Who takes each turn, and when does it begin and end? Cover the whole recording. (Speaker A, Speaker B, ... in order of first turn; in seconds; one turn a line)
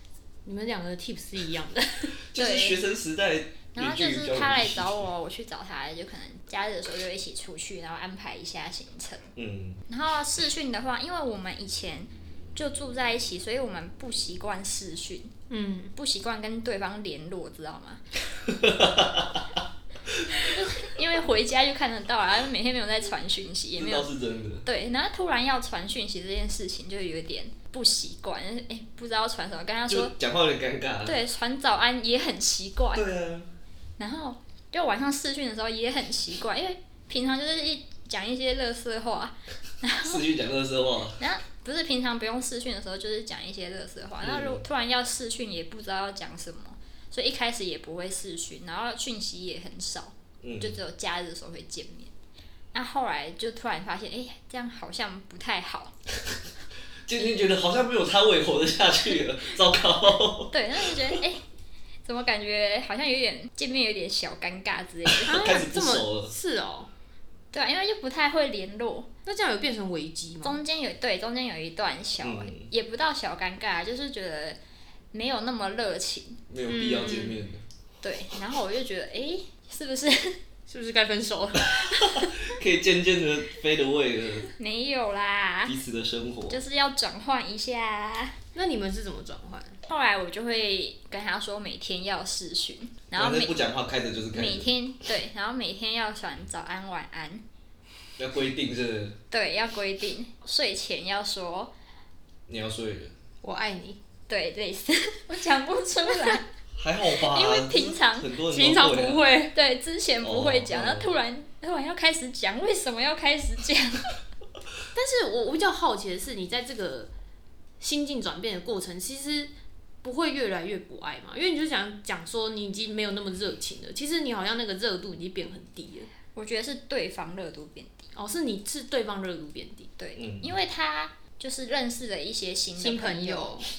Speaker A: 0.5-2.1
Speaker B: 2.3-5.1
Speaker C: 2.4-2.8
Speaker C: 3.8-9.3
Speaker B: 9.4-9.8
Speaker C: 9.9-15.3
Speaker A: 15.5-15.9
Speaker C: 16.0-18.0
Speaker B: 18.3-20.5
Speaker C: 20.4-24.1
Speaker B: 23.8-24.6
Speaker C: 24.6-30.1
Speaker B: 29.9-31.2
Speaker C: 31.1-33.0
Speaker B: 32.9-33.5
Speaker C: 34.0-40.2
Speaker B: 40.0-41.2
Speaker C: 41.2-52.1
Speaker B: 44.2-44.6
Speaker B: 50.4-50.8
Speaker C: 52.7-55.9
Speaker B: 57.1-61.2
Speaker C: 60.5-61.4
Speaker C: 62.0-65.5
Speaker B: 65.1-66.3
Speaker A: 65.3-66.9
Speaker C: 67.5-69.1
Speaker A: 69.3-70.6
Speaker C: 70.4-74.6
Speaker B: 72.2-72.7
Speaker C: 75.1-76.4
Speaker B: 76.5-77.6
Speaker A: 76.7-77.4
Speaker C: 78.0-80.4
Speaker A: 80.7-82.3
Speaker B: 81.7-84.5
Speaker C: 84.6-85.8
Speaker B: 85.7-86.6
Speaker C: 86.5-88.4
Speaker A: 88.5-89.8
Speaker C: 89.9-93.6
Speaker B: 93.1-94.7
Speaker C: 94.3-97.4
Speaker B: 98.2-99.2
Speaker C: 99.3-101.7
Speaker B: 102.5-103.1
Speaker A: 103.4-104.0
Speaker C: 104.3-106.5
Speaker B: 106.8-109.2
Speaker C: 107.2-108.3
Speaker A: 108.5-109.5
Speaker C: 109.5-114.2
Speaker B: 110.2-111.1
Speaker A: 114.9-117.1
Speaker A: 117.8-119.5
Speaker A: 120.0-126.1
Speaker C: 126.3-128.1
Speaker A: 128.2-129.9
Speaker C: 130.0-133.6
Speaker B: 130.2-130.6
Speaker A: 132.8-133.7